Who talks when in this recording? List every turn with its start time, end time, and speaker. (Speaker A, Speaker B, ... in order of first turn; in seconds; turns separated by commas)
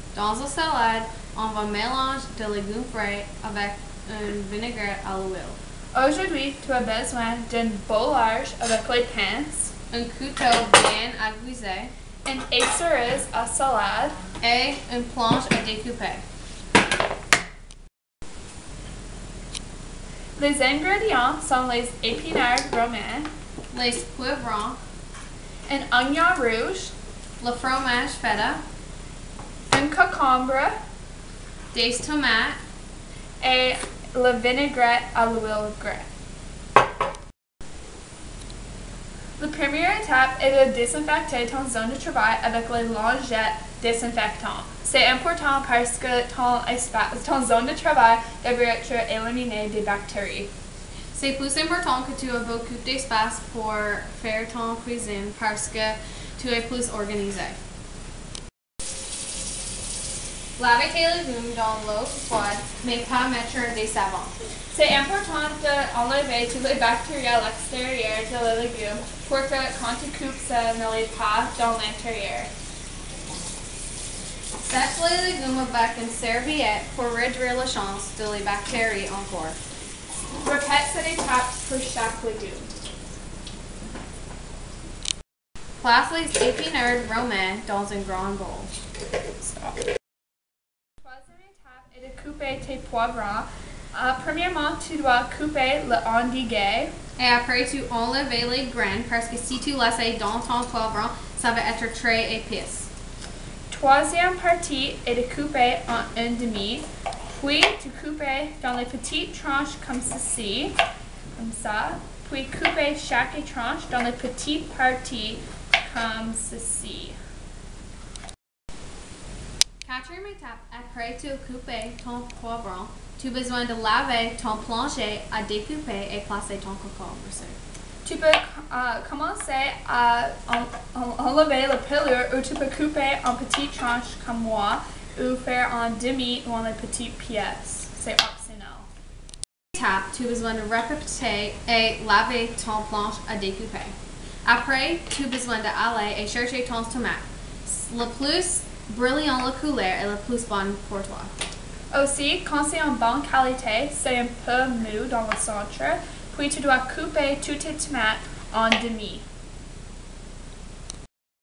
Speaker A: 0.1-5.6, Speaker B: 5.9-9.7, Speaker A: 9.9-11.9, Speaker B: 12.2-14.2, Speaker A: 14.4-16.2, Speaker B: 20.4-23.3, Speaker A: 23.7-24.8, Speaker B: 25.7-26.9, Speaker A: 27.4-28.6, Speaker B: 29.7-30.7, Speaker A: 31.7-32.6, Speaker B: 33.4-36.1, Speaker B: 39.4-50.5, Speaker A: 51.1-57.6, Speaker A: 60.6-64.3, Speaker B: 64.7-72.5, Speaker A: 74.6-79.6, Speaker B: 80.4-82.7, Speaker A: 85.8-88.7, Speaker B: 91.0-96.9, Speaker A: 97.2-102.9, Speaker B: 103.7-110.7, Speaker B: 111.3-117.2, Speaker A: 119.8-127.6, Speaker B: 128.0-138.9, Speaker A: 139.7-143.9, Speaker A: 144.4-151.3, Speaker B: 151.9-159.2